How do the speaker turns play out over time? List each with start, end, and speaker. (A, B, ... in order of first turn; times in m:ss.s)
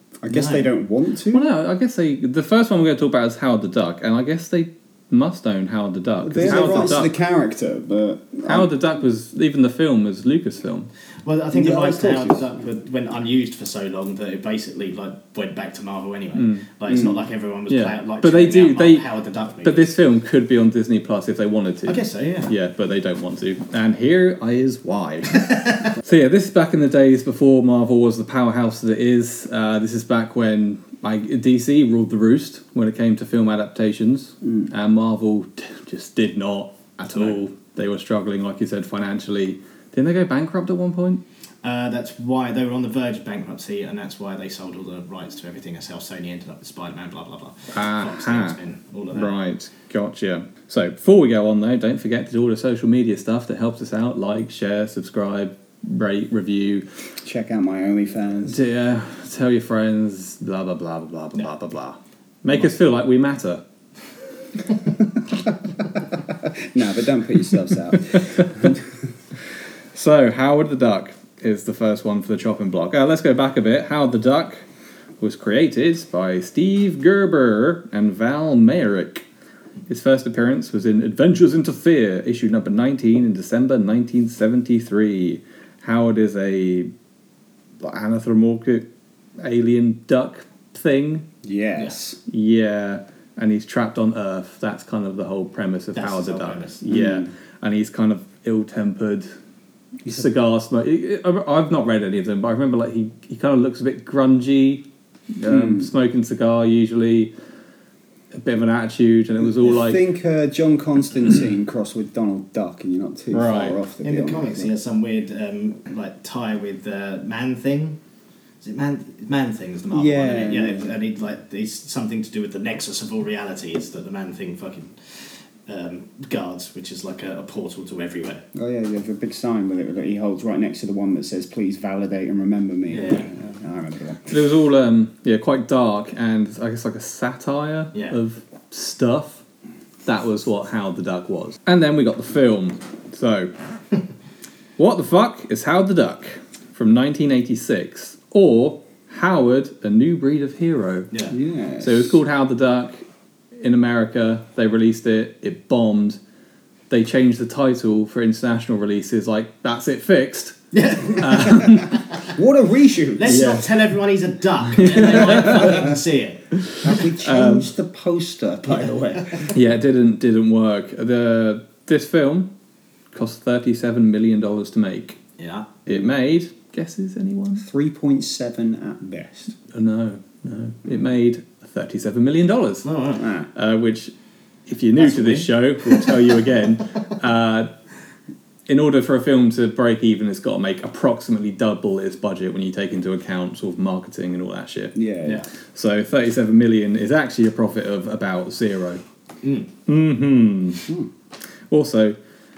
0:00.2-0:01.5 A
0:00.3-0:00.7 B
0:01.3-0:07.1 C
0:06.2-0:08.7 A
0:06.4-0:06.8 B
0:08.4-0:10.9 C
0:11.2-0:19.9 B
0:11.5-0:12.4 A
0:16.3-0:16.6 C
0:16.9-0:17.2 A
0:17.7-0:19.0 C
0:19.6-0:25.4 C
0:21.8-0:22.5 B
0:25.4-0:25.8 B
0:26.0-0:41.2 C
0:41.6-0:49.3 B
0:47.7-0:48.6 C
0:49.1-0:56.8 C
0:57.2-0:58.6 A
0:58.4-1:03.6 C
1:06.3-1:08.8 A
1:08.2-1:08.7 C
1:09.9-1:14.6 C
1:15.2-1:19.2 C
1:19.9-1:26.9 C
1:27.8-1:28.9 C
1:29.4-1:31.2 C
1:31.4-1:32.2 A
1:32.3-1:39.3 C
1:36.0-1:36.8 B
1:36.9-1:37.3 A
1:40.0-1:47.3 C
1:45.4-1:45.9 A
1:48.3-1:50.0 C
1:49.4-1:54.7 A
1:53.3-1:53.8 C
1:54.0-1:58.0 B
1:58.6-2:08.4 B
1:59.9-2:00.9 A
2:08.5-2:14.3 A
2:12.9-2:13.3 B
2:14.3-2:19.4 C
2:20.0-2:23.5 C
2:24.8-2:31.1 C
2:31.3-2:32.2 A
2:31.8-2:33.0 C
2:33.6-2:36.2 C
2:36.9-2:40.6 C
2:40.7-2:41.8 B
2:41.1-2:42.0 C
2:42.3-2:43.5 A
2:43.2-2:46.4 B
2:43.2-2:43.6 C
2:44.8-2:45.8 C
2:45.0-2:45.9 A
2:46.6-2:47.7 C
2:46.8-2:49.4 A
2:48.6-2:49.5 B
2:49.5-2:52.5 C
2:53.1-2:55.2 C
2:55.4-2:55.7 B
2:55.8-2:57.6 C
2:57.6-2:59.5 A
2:59.7-3:02.9 C
3:02.8-3:03.3 B
3:03.2-3:03.5 A
3:03.5-3:04.1 C
3:04.7-3:07.7 C
3:05.0-3:06.6 B
3:08.7-3:14.9 C
3:14.9-3:15.4 A
3:15.7-3:19.0 C
3:19.4-3:19.7 B
3:19.8-3:20.8 C
3:21.7-3:22.2 C